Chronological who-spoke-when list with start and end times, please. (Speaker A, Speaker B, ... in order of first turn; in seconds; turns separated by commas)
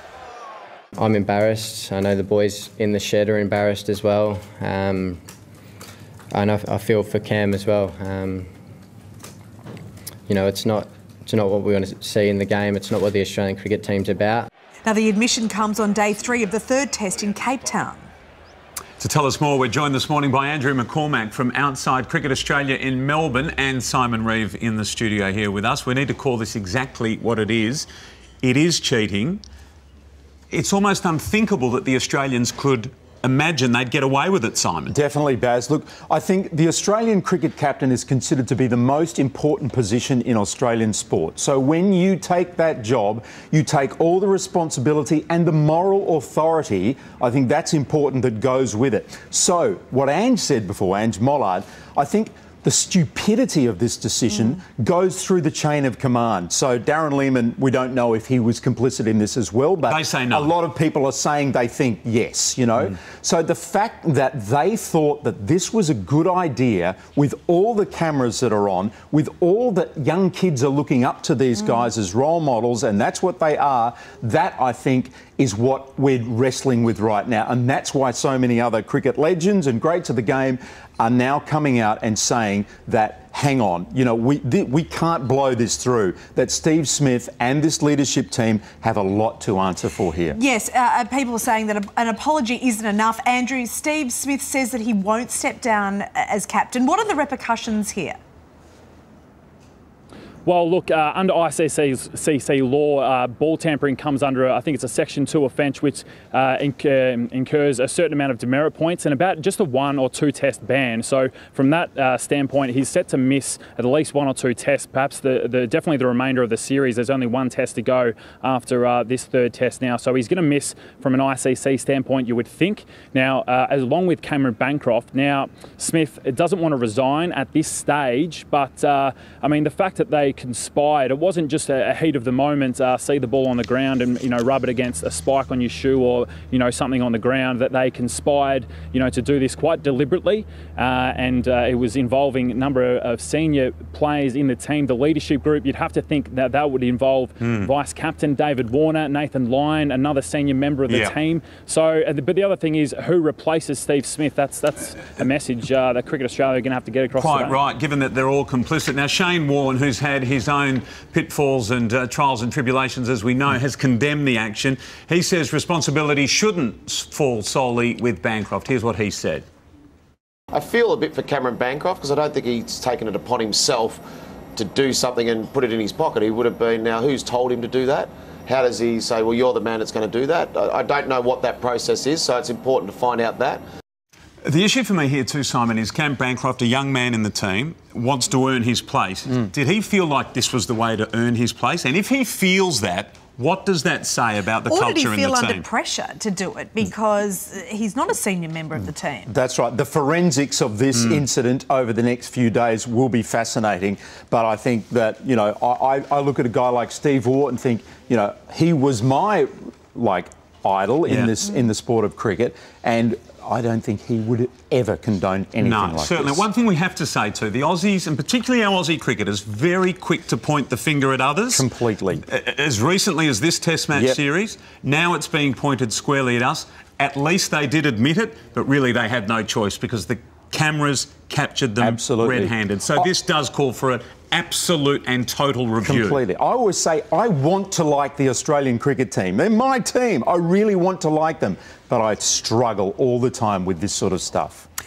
Speaker A: 1.0-5.2, Speaker A: 6.3-8.5, Speaker A: 10.3-14.5, Speaker B: 14.8-18.1, Speaker C: 19.0-27.9, Speaker C: 28.4-29.4, Speaker C: 30.5-35.0, Speaker D: 34.9-90.4, Speaker C: 59.9-60.5, Speaker B: 90.3-98.2, Speaker E: 100.5-157.6, Speaker C: 147.4-147.7, Speaker C: 150.9-151.1, Speaker C: 157.2-169.4, Speaker F: 170.5-174.0, Speaker F: 174.6-183.6, Speaker C: 184.4-195.7, Speaker B: 194.7-199.3, Speaker D: 199.3-216.4, Speaker C: 211.1-211.3, Speaker C: 215.6-221.7, Speaker D: 221.5-222.2, Speaker C: 222.2-236.2, Speaker D: 223.9-224.2, Speaker D: 231.8-233.1, Speaker D: 235.8-244.7